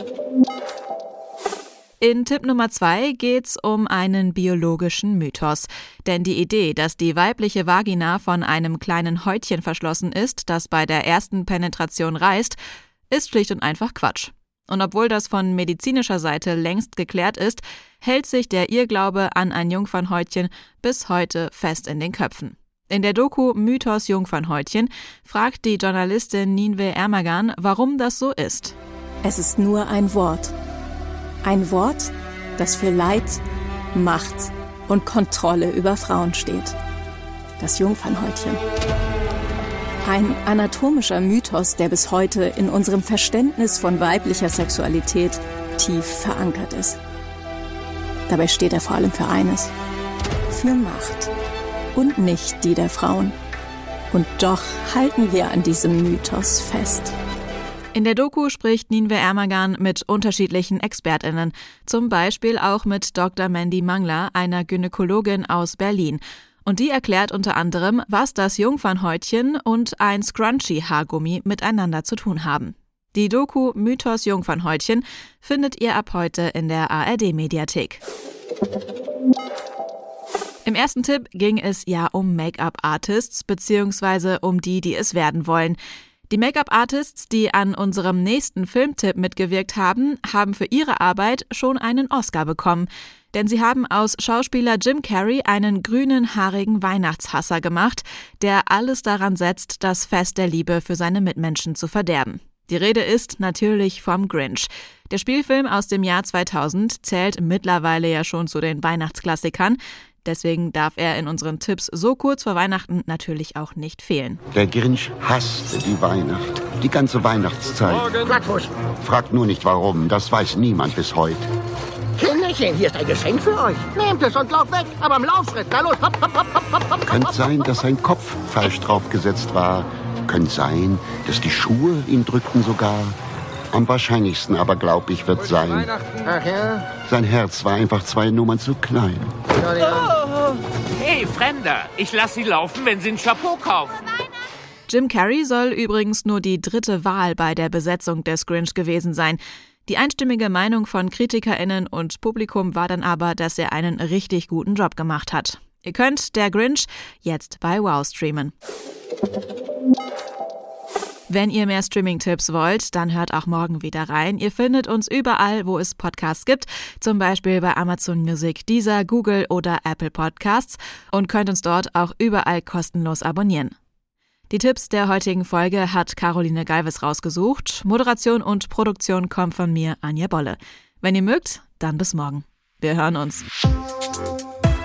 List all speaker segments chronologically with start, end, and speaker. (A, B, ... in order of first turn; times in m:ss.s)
0:02.0-0:12.6 A
0:13.1-0:28.8 A
0:29.2-0:30.5 B
0:31.4-0:33.4 B
0:33.9-0:36.7 B
0:37.6-0:38.6 B
0:40.1-0:47.0 B
0:48.3-0:49.7 B
0:50.5-0:51.3 B
0:51.9-0:53.3 B
0:54.1-0:57.1 B
0:57.9-1:18.0 A
1:20.6-1:25.8 A
1:26.3-1:54.4 A
1:54.5-1:58.3 C
1:58.2-1:58.7 D
1:59.0-2:01.4 C
2:02.2-2:06.5 D
2:07.1-2:13.2 C
2:13.7-2:15.9 C
2:17.0-2:19.3 C
2:19.7-2:20.1 E
2:21.0-2:23.9 E
2:24.9-2:38.5 A
2:41.3-2:53.7 A
2:54.5-3:03.4 A